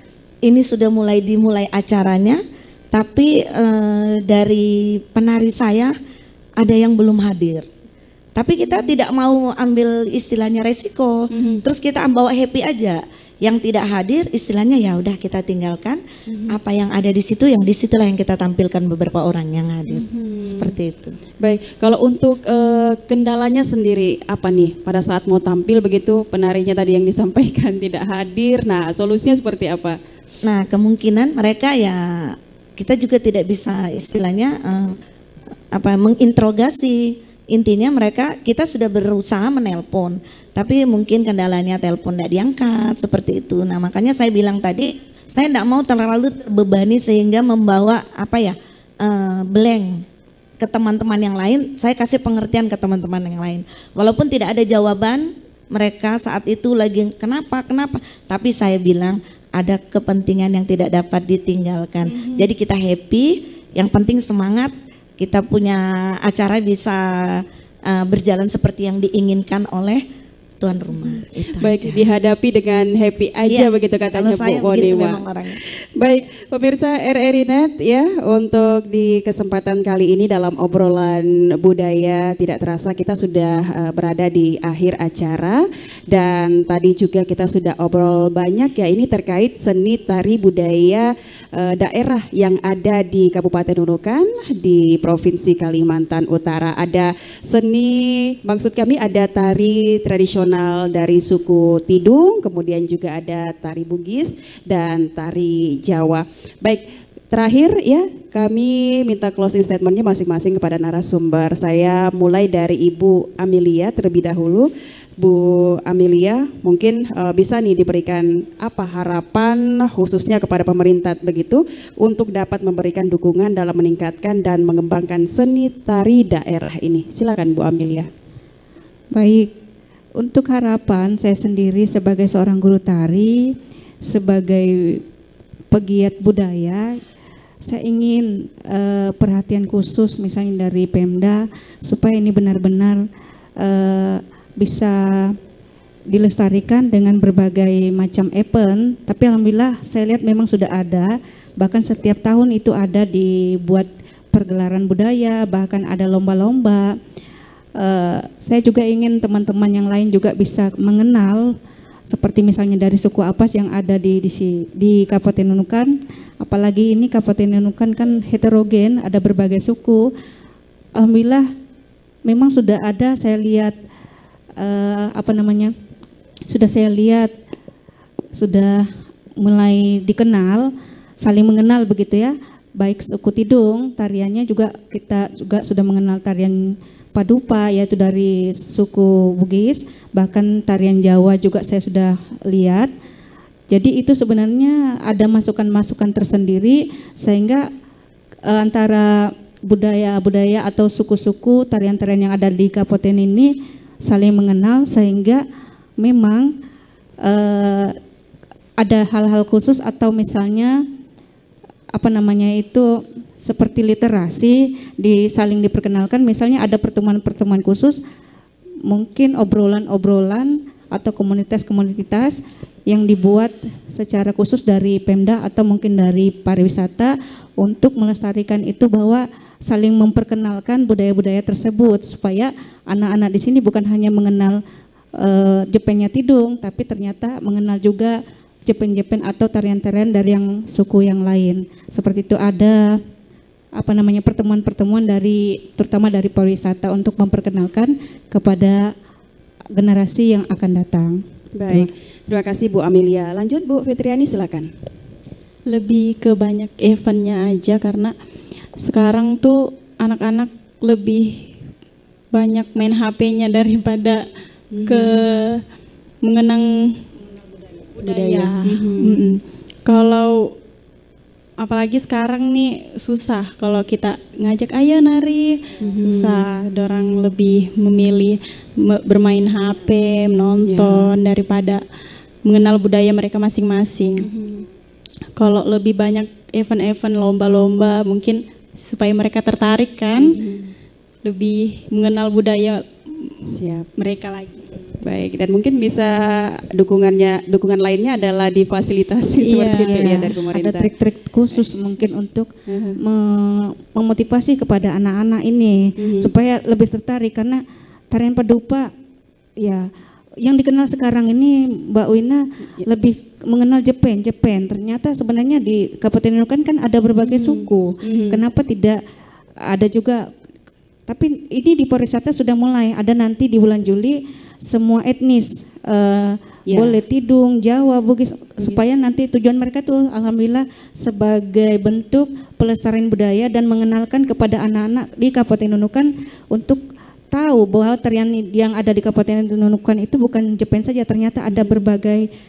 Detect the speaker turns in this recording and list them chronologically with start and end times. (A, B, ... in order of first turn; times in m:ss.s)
0:00.4-0:02.4 A
0:02.9-0:05.9 A
0:06.6-0:07.6 A
0:08.4-0:21.2 A
0:08.6-0:08.9 B
0:11.3-0:11.6 B
0:16.3-0:16.6 B
0:19.9-0:20.8 B
0:21.4-0:30.0 B
0:30.4-0:35.0 A
0:35.7-0:50.0 A
0:50.6-1:10.0 A
1:02.0-1:02.5 B
1:10.6-1:12.0 A
1:11.0-1:15.2 B
1:13.4-1:15.6 A
1:16.0-2:08.1 B
2:09.1-2:09.5 C
2:10.2-2:13.4 C
2:14.0-2:15.0 C
2:15.7-2:16.9 C
2:17.6-2:23.0 C
2:23.6-2:25.4 C
2:26.1-2:36.9 C
2:37.8-2:41.5 C
2:42.1-2:50.1 C
2:51.0-2:51.4 C
2:52.2-2:53.7 C
2:54.6-2:55.7 C
2:56.5-2:57.3 C
2:58.3-2:58.9 C
2:59.4-3:00.7 C
3:01.2-3:12.9 C
3:13.7-3:17.7 C
3:18.5-3:23.5 C
3:24.0-3:25.4 C
3:26.0-3:26.5 C
3:27.2-3:28.0 C
3:28.8-3:30.8 C
3:31.9-3:32.9 C
3:33.4-3:38.0 C
3:38.9-3:54.6 C
3:55.2-4:03.0 C
4:03.8-4:08.9 C
4:09.7-4:11.9 C
4:11.6-4:14.7 B
4:15.7-4:18.1 D
4:18.8-4:21.5 D
4:22.3-4:24.3 D
4:24.7-4:25.2 B
4:24.9-4:25.6 D
4:26.2-4:27.0 D
4:27.9-4:30.5 D
4:28.0-4:29.2 B
4:31.6-4:41.8 D
4:35.8-4:36.4 B
4:40.6-4:41.1 B
4:42.4-4:44.3 D
4:44.2-4:44.7 B
4:45.4-4:50.4 D
4:50.2-4:50.7 B
4:51.2-4:53.4 D
4:53.4-4:53.9 B
4:54.0-4:54.8 D
4:55.0-5:00.9 B
4:59.4-5:00.1 D
4:59.7-5:08.9 C
5:02.7-5:03.0 B
5:06.0-5:06.3 B
5:09.6-5:09.9 C
5:10.4-5:19.0 C
5:17.2-5:18.4 B
5:19.7-5:20.2 C
5:21.1-5:42.2 C
5:26.7-5:27.0 B
5:41.5-5:41.8 B